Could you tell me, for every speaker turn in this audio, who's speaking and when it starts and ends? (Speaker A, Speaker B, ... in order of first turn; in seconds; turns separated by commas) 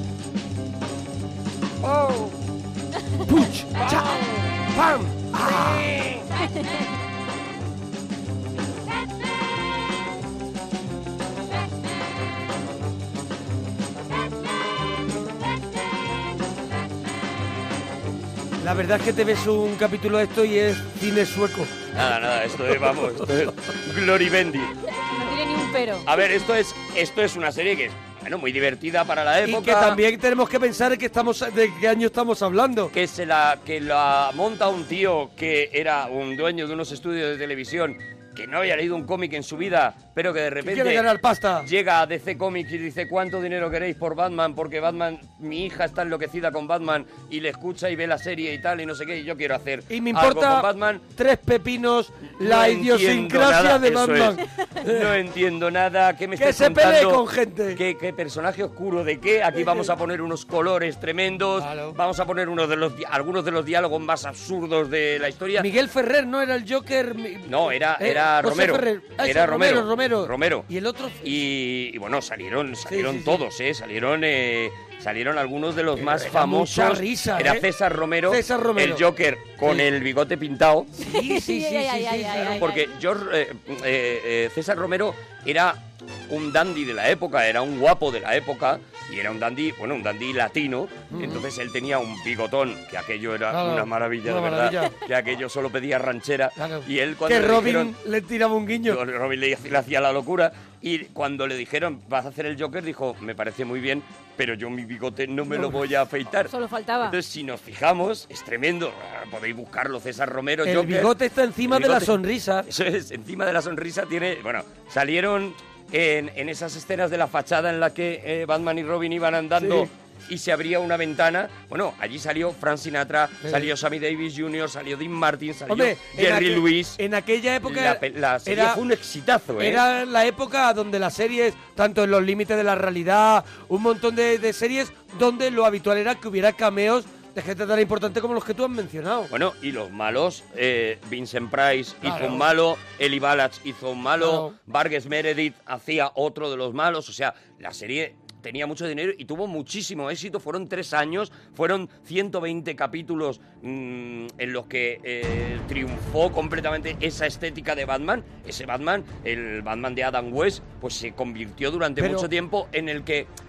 Speaker A: 1.8-2.3, Speaker B: 3.2-5.9, Speaker A: 3.8-4.3, Speaker A: 5.6-6.2, Speaker B: 18.6-21.7, Speaker A: 21.9-24.7, Speaker C: 25.1-26.1, Speaker A: 26.1-30.0, Speaker B: 29.4-32.9, Speaker A: 32.9-41.1, Speaker B: 40.6-41.7, Speaker A: 41.6-51.0, Speaker B: 49.9-55.1, Speaker A: 52.4-65.7, Speaker B: 56.4-57.8, Speaker B: 59.5-59.9, Speaker B: 61.6-62.0, Speaker B: 65.6-71.3, Speaker A: 67.5-70.7, Speaker A: 71.2-80.9, Speaker B: 72.8-73.4, Speaker B: 76.0-77.7, Speaker B: 78.3-79.0, Speaker B: 81.0-82.7, Speaker C: 81.0-82.9, Speaker A: 82.4-97.9, Speaker B: 91.1-91.4, Speaker B: 93.5-95.0, Speaker B: 96.6-99.0, Speaker A: 98.9-111.1, Speaker C: 106.4-107.2, Speaker B: 110.6-112.7, Speaker A: 111.7-127.0, Speaker B: 119.6-119.9, Speaker B: 123.4-123.7, Speaker B: 125.7-128.8, Speaker A: 127.6-129.8, Speaker B: 129.6-139.3, Speaker A: 139.3-163.3, Speaker B: 142.0-142.5, Speaker B: 144.2-144.5, Speaker B: 162.0-162.3